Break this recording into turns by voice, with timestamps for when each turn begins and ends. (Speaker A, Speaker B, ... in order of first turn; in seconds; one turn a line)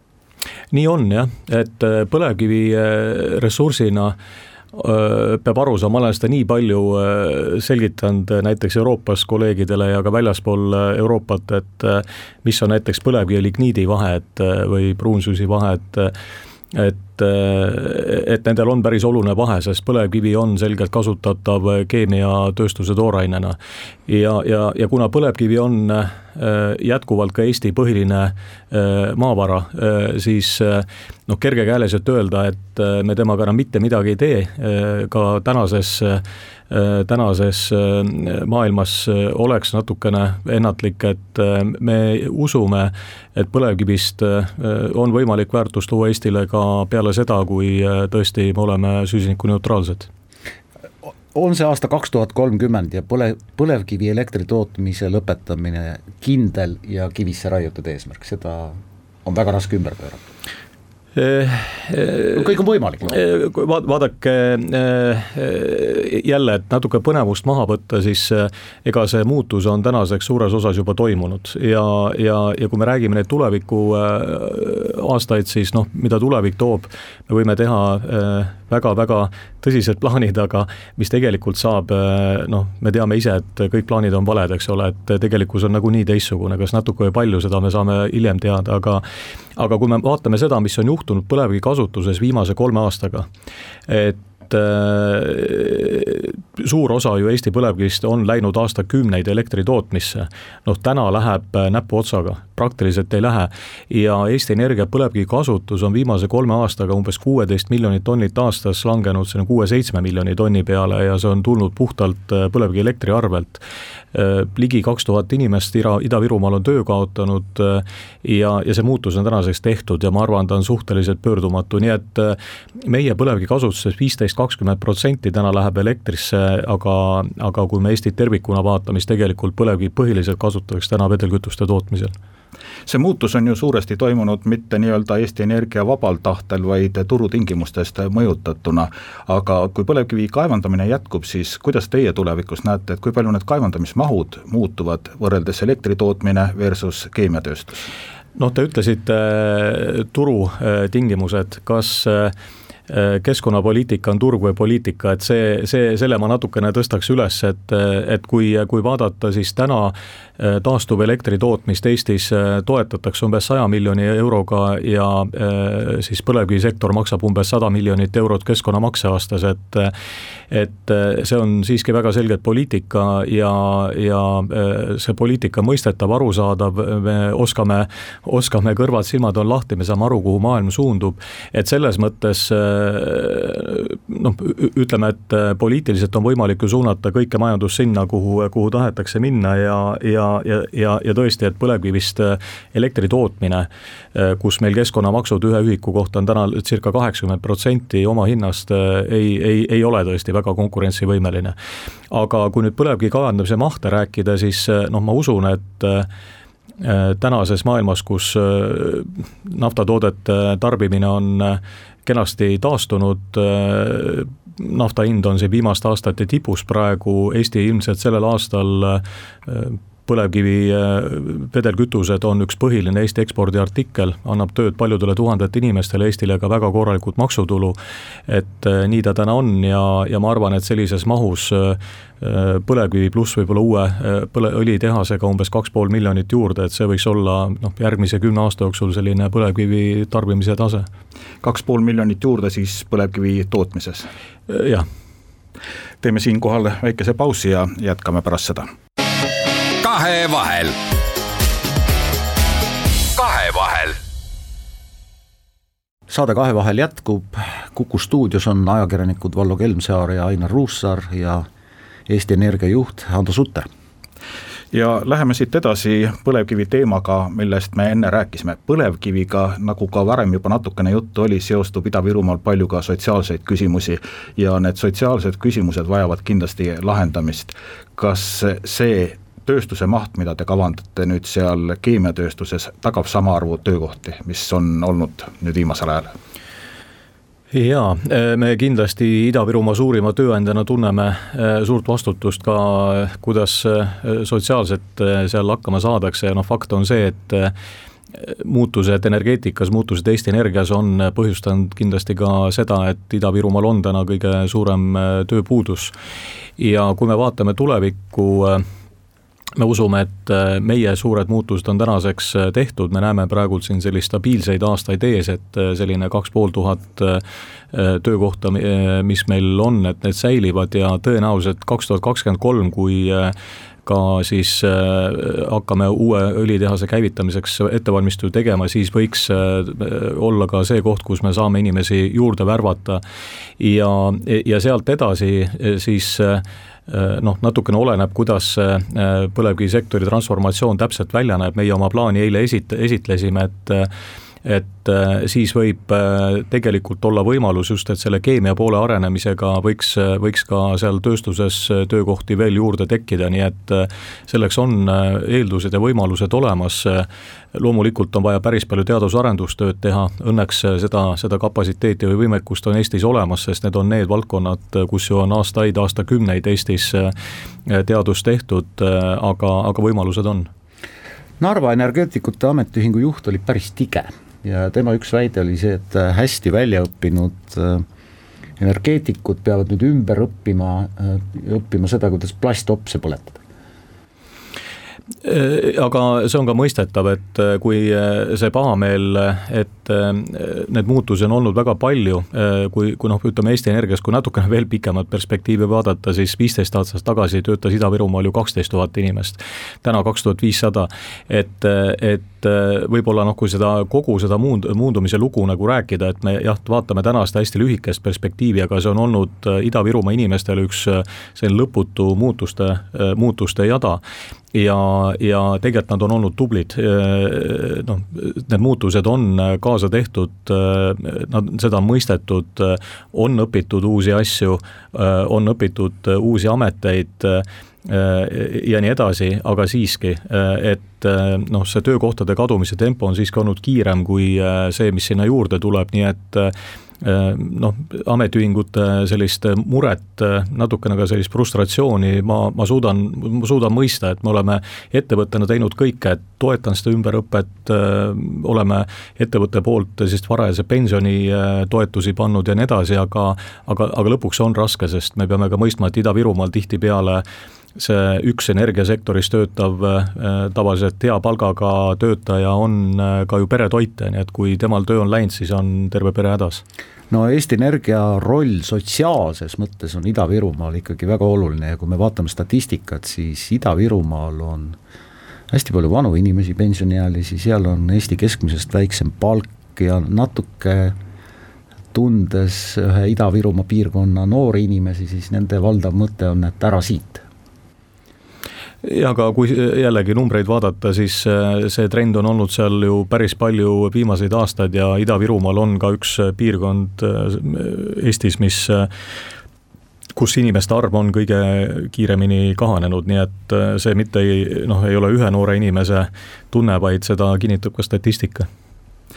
Speaker A: 0.7-4.2
Speaker A: 4.7-16.1
Speaker A: 16.7-50.1
Speaker B: 51.3-60.2
Speaker A: 61.1-62.5
Speaker B: 62.3-63.2
Speaker A: 63.0-89.0
Speaker A: 89.5-93.3
Speaker A: 93.9-113.6
Speaker A: 114.1-132.1
Speaker C: 132.8-147.8
Speaker A: 148.3-152.3
Speaker A: 152.9-169.9
Speaker A: 170.5-201.5
Speaker A: 202.1-206.1
Speaker A: 206.8-227.8
Speaker A: 228.3-240.9
Speaker C: 241.4-244.1
Speaker A: 244.5-244.8
Speaker C: 246.0-248.7
Speaker D: 249.8-250.8
Speaker D: 253.1-254.0
Speaker B: 256.1-261.5
Speaker B: 262.1-263.7
Speaker C: 264.7-286.1
Speaker A: 287.5-297.5
Speaker A: 298.1-305.9
Speaker A: 306.6-308.6
Speaker A: 309.6-333.0
Speaker A: 333.6-343.9
Speaker A: 344.4-367.1
Speaker A: 367.7-370.5
Speaker B: 371.4-377.8
Speaker B: 378.6-383.4
Speaker A: 385.2-414.0
Speaker A: 414.5-457.2
Speaker A: 457.8-466.6
Speaker B: 467.1-474.8
Speaker B: 475.5-481.0
Speaker B: 481.9-487.2
Speaker A: 488.8-498.9
Speaker A: 500.1-508.5